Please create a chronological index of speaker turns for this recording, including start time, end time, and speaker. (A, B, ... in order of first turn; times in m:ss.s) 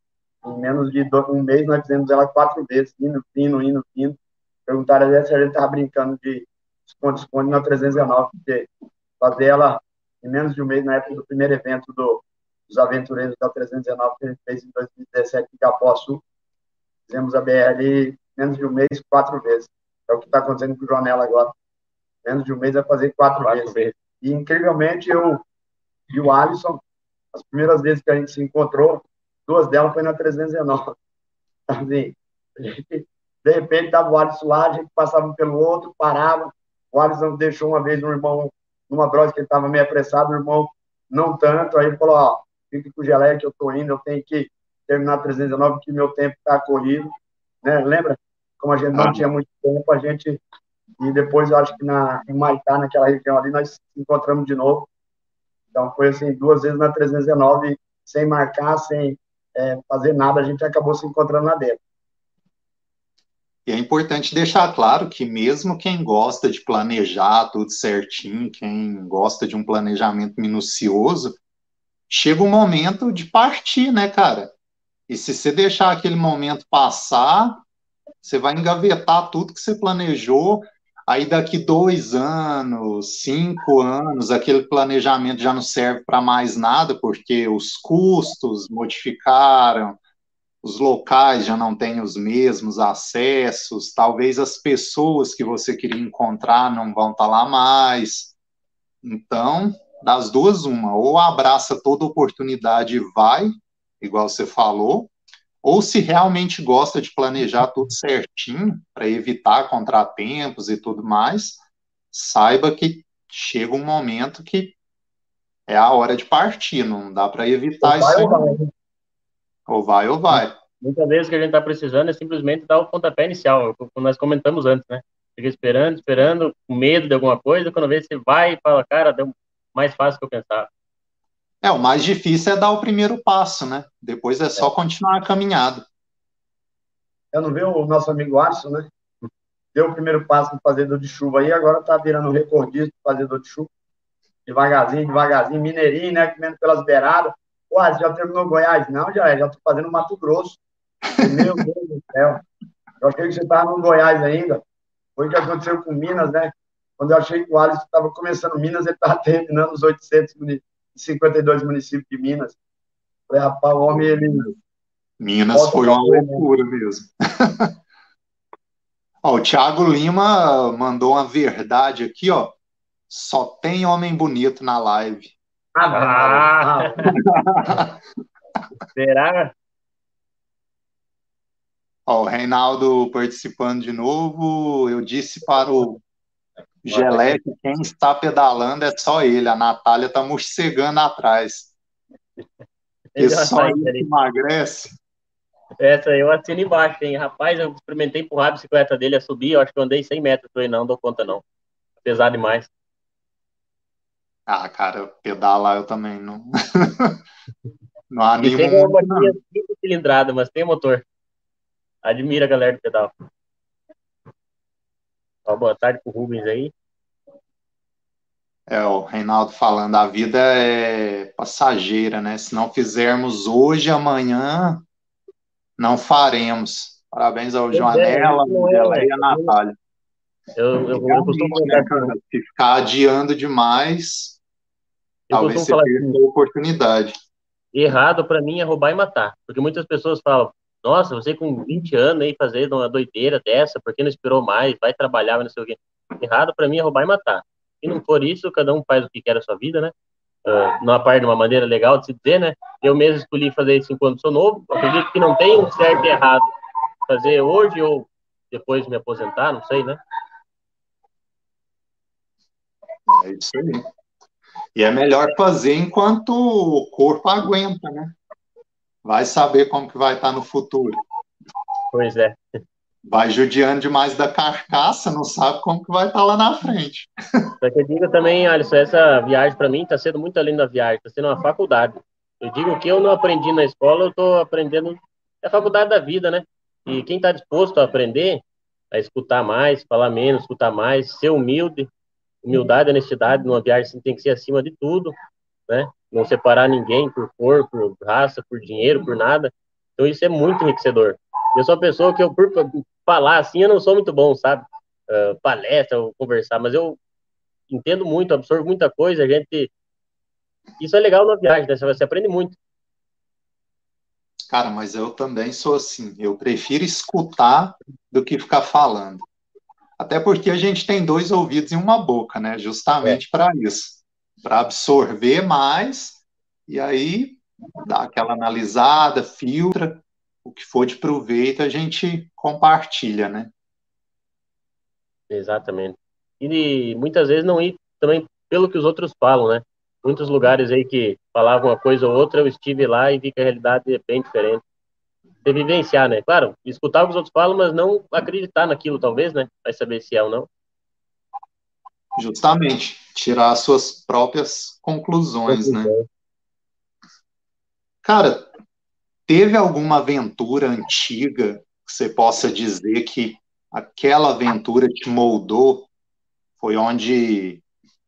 0:00.4-0:08.7 A
0:09.2-0:16.2 A
0:17.1-0:21.5 A
0:22.2-0:25.4 A
0:23.4-0:23.9 B
0:26.1-0:26.8 A
0:27.3-0:30.9 A
0:31.7-0:47.1 A
0:47.6-0:50.4 A
0:48.9-0:49.2 C
0:51.0-0:54.9 A
0:55.7-1:01.8 A
1:03.6-1:11.4 C
1:12.1-1:14.5 C
1:15.1-1:17.6 C
1:18.2-1:30.0 C
1:30.6-1:38.3 C
1:39.0-1:45.1 C
1:45.6-1:54.8 C
1:55.7-1:58.6 C
1:57.8-1:58.7 A
1:59.7-2:00.6 C
2:00.3-2:10.7 B
2:11.6-2:15.8 C
2:17.3-2:18.9 A
2:19.7-2:23.7 A
2:24.5-2:30.6 A
2:31.2-2:32.4 A
2:33.0-2:34.6 A
2:35.2-2:42.6 A
2:43.3-2:44.4 A
2:43.9-2:44.5 C
2:45.2-2:47.7 C
2:45.5-2:46.4 A
2:49.2-2:52.6 C
2:53.1-2:55.3 C
2:55.8-2:57.2 A
2:55.9-2:57.0 B
2:57.2-2:58.0 C
2:58.9-2:59.5 B
3:02.1-3:06.0 C
3:06.8-3:11.7 C
3:06.9-3:07.4 B
3:13.1-3:14.1 B
3:13.2-3:15.0 C
3:15.8-3:21.4 B
3:22.0-3:22.7 B
3:24.5-3:27.2 C
3:28.1-3:29.3 C
3:28.4-3:31.0 B
3:32.0-3:33.1 B
3:35.4-3:36.7 B
3:38.7-3:44.8 C
3:45.8-3:49.7 C
3:47.7-3:49.5 B
3:50.6-3:52.1 B
3:50.9-3:54.4 C
3:55.3-3:56.2 B
3:55.3-3:57.1 C
3:57.7-4:09.9 B
4:10.4-4:16.5 B
4:17.1-4:20.0 B
4:23.1-4:23.8 C
4:24.8-4:28.1 C
4:29.0-4:31.0 C
4:31.9-4:32.4 B
4:33.1-4:37.5 C
4:37.6-4:51.9 B
4:52.4-4:55.1 B
4:55.7-5:07.0 B
5:07.7-5:09.7 B
5:10.8-5:12.6 B
5:14.5-5:19.2 C
5:20.0-5:33.5 C
5:35.3-5:44.6 B
5:45.4-5:50.5 B
5:52.2-5:55.9 C
5:55.5-5:56.0 B
5:58.0-5:58.5 C
5:59.3-6:05.9 C
6:06.6-6:07.6 C